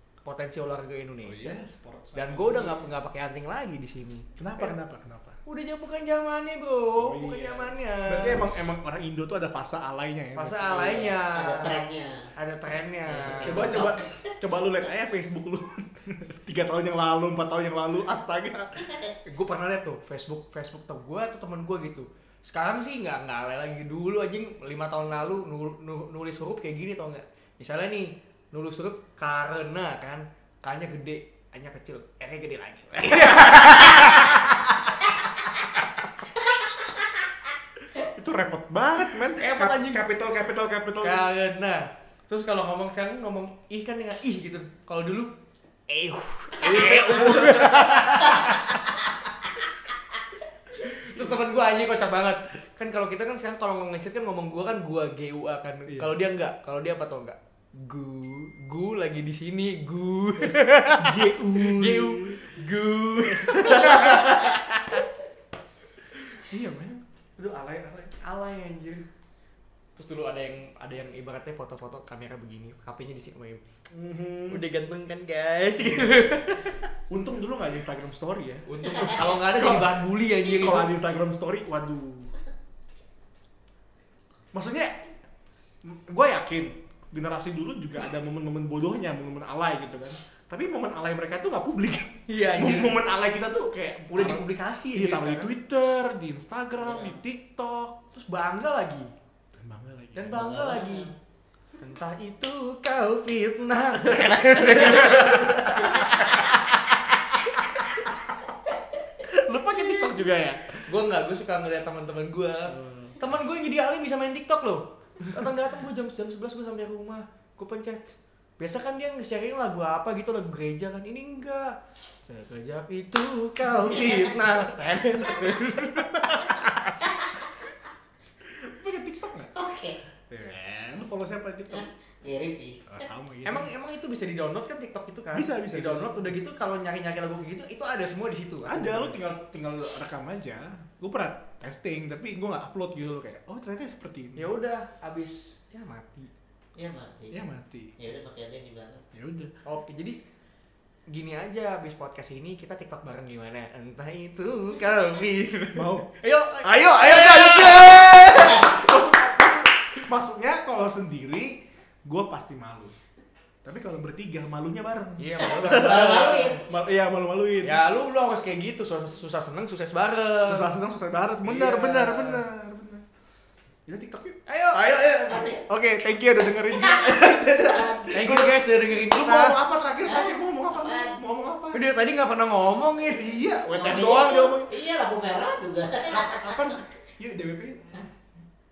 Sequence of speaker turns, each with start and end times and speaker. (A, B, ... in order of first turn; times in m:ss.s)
0:00.2-0:04.7 A
0:01.2-0:02.8 B
0:04.4-0:05.4 B
0:05.4-0:08.4 A
0:07.0-0:11.0 B
0:10.4-0:11.8 A
0:10.7-0:12.3 C
0:12.4-0:13.8 A
0:13.0-0:14.4 C
0:13.4-0:18.8 B
0:18.8-0:19.1 C
0:19.2-0:34.5 A
0:33.0-0:34.6 B
0:37.9-0:41.2 B
0:39.4-0:40.0 A
0:41.0-0:45.3 A
0:45.9-0:48.8 A
0:46.6-0:48.4 B
0:46.6-0:47.4 C
0:48.2-0:48.5 C
0:50.8-1:04.8 A
0:50.8-0:51.4 B
1:00.4-1:02.6 B
1:03.2-1:05.0 B
1:06.3-1:08.2 B
1:08.2-1:09.0 A
1:10.0-1:13.6 A
1:13.9-1:14.6 B
1:14.5-1:16.9 A
1:15.8-1:16.6 B
1:17.1-1:22.3 B
1:18.7-1:20.9 A
1:24.5-1:25.0 B
1:25.8-1:38.0 B
1:32.3-1:33.0 A
1:34.1-1:35.5 A
1:38.1-1:39.1 A
1:39.5-1:40.6 B
1:40.1-1:41.1 A
1:40.3-1:41.1 C
1:41.8-1:46.5 A
1:44.6-1:46.6 B
1:47.3-1:47.6 B
1:49.2-1:50.8 B
1:49.7-2:07.0 A
1:52.7-1:53.2 B
2:03.9-2:04.4 C
2:07.0-2:07.5 C
2:08.5-2:09.5 B
2:09.5-2:10.0 C
2:10.3-2:11.9 B
2:11.7-2:13.1 C
2:12.9-2:13.7 B
2:13.4-2:19.2 A
2:15.3-2:16.3 B
2:18.6-2:24.5 B
2:24.4-2:26.3 A
2:26.8-2:27.4 C
2:27.3-2:27.9 B
2:28.0-2:29.0 C
2:29.1-2:29.5 B
2:29.6-2:30.2 A
2:31.1-2:38.7 A
2:35.7-2:36.1 B
2:36.6-2:43.0 B
2:43.6-2:47.8 B
2:45.2-2:46.6 A
2:45.4-2:46.6 C
2:47.6-2:50.7 A
2:50.4-2:53.0 B
2:51.4-2:52.5 A
2:53.9-3:01.8 B
2:54.5-2:54.8 A
2:55.0-2:55.6 C
2:56.7-2:58.1 C
2:58.1-2:59.6 A
3:00.0-3:01.2 C
3:01.7-3:03.3 A
3:03.2-3:04.7 B
3:03.7-3:06.8 C
3:06.1-3:08.1 B